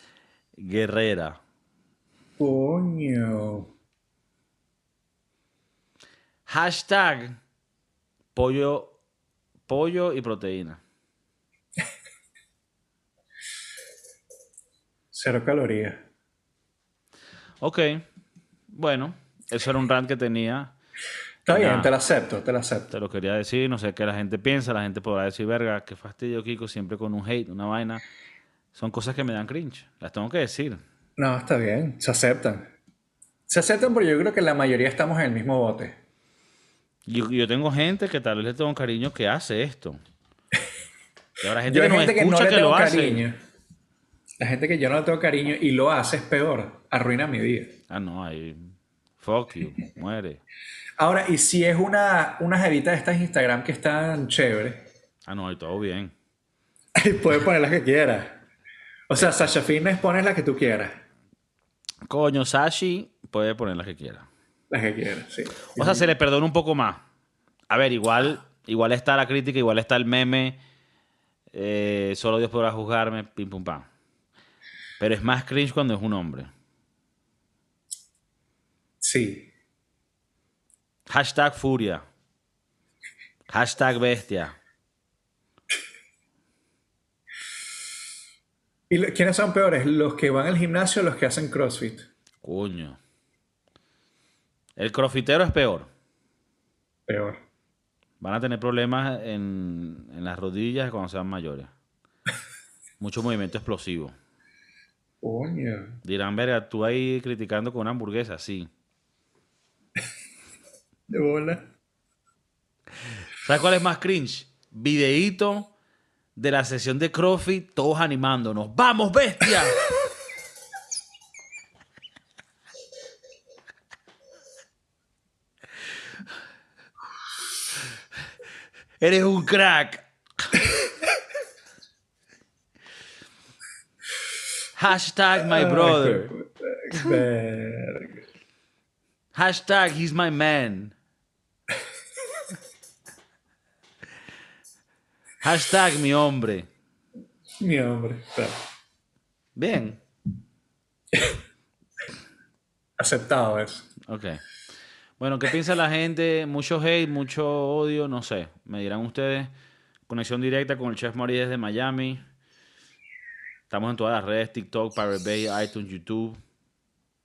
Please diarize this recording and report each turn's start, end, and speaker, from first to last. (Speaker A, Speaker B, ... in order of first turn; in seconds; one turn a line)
Speaker A: 0.6-1.4
Speaker B: 2.4-3.7
Speaker A: 6.5-7.4
Speaker A: 8.3-8.9
Speaker A: 9.7-10.8
Speaker B: 15.1-16.0
Speaker A: 17.6-18.1
Speaker A: 18.7-20.7
Speaker B: 21.5-22.9
Speaker A: 21.5-21.9
Speaker A: 22.9-28.0
Speaker A: 28.7-30.8
Speaker B: 31.2-32.7
Speaker B: 33.5-36.0
Speaker A: 37.1-40.0
Speaker A: 41.4-43.2
Speaker B: 41.7-43.4
Speaker B: 44.4-47.8
Speaker A: 47.9-50.4
Speaker B: 51.0-54.9
Speaker A: 55.3-56.1
Speaker B: 56.9-58.4
Speaker B: 59.1-61.0
Speaker A: 59.1-59.5
Speaker A: 62.1-64.3
Speaker B: 64.7-66.1
Speaker A: 65.7-67.0
Speaker A: 67.7-70.6
Speaker A: 71.5-73.9
Speaker A: 75.0-76.5
Speaker B: 79.0-79.5
Speaker A: 81.1-82.0
Speaker A: 83.5-84.6
Speaker B: 88.9-92.1
Speaker A: 92.4-93.0
Speaker A: 94.8-95.9
Speaker B: 97.1-97.4
Speaker A: 98.2-101.7
Speaker A: 103.0-104.2
Speaker B: 105.2-106.0
Speaker A: 106.0-108.7
Speaker B: 111.1-111.6
Speaker A: 113.4-115.7
Speaker A: 116.3-119.8
Speaker A: 129.0-130.0
Speaker A: 134.8-136.3
Speaker B: 135.4-138.2
Speaker A: 139.3-140.9
Speaker A: 145.4-146.7
Speaker B: 147.6-148.6
Speaker A: 149.6-150.0
Speaker B: 153.0-153.9
Speaker A: 154.0-154.4
Speaker A: 155.2-159.5
Speaker A: 160.1-162.2
Speaker A: 163.7-166.4